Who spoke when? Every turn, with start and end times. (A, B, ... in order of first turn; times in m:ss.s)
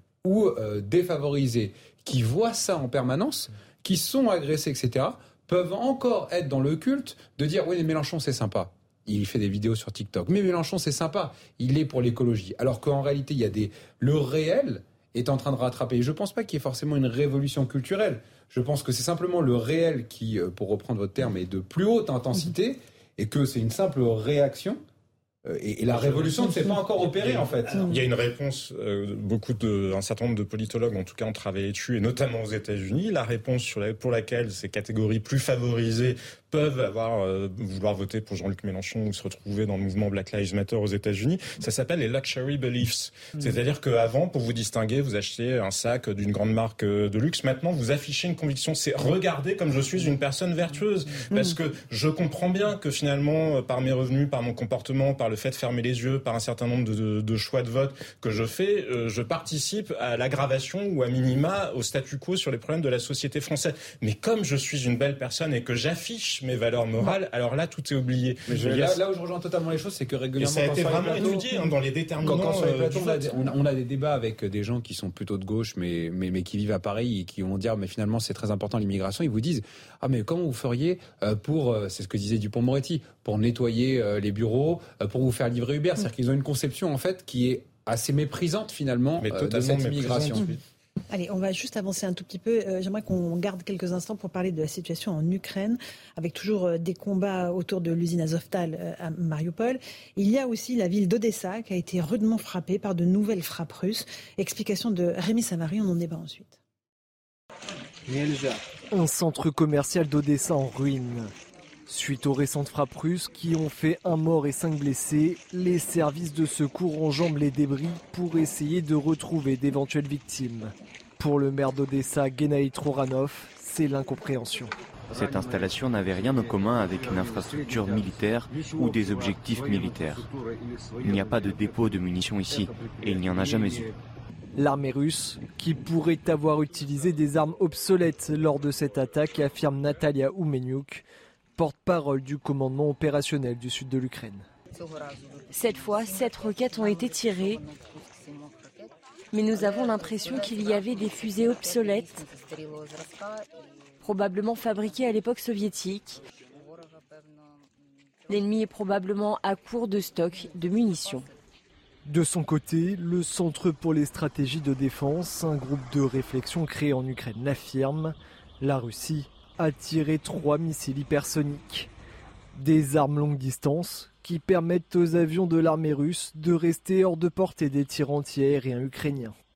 0:00.2-0:24.8 A
0:25.4-0:27.8 A
0:25.9-1:09.0 B
0:27.7-0:28.0 C
0:51.3-0:51.6 C
1:08.5-1:11.7 A
1:10.4-1:13.5 B
1:12.2-1:30.5 A
1:29.2-1:30.6 B
1:31.1-1:46.6 C
1:48.9-1:51.3 D
1:51.9-2:04.7 D
2:05.1-2:10.3 E
2:11.0-2:13.9 E
2:14.6-2:21.0 D
2:21.6-2:24.4 D
2:25.5-2:27.6 F
2:29.3-2:32.3 F
2:34.0-2:36.2 F
2:38.3-2:41.2 F
2:42.0-2:51.9 D
2:52.5-2:59.3 D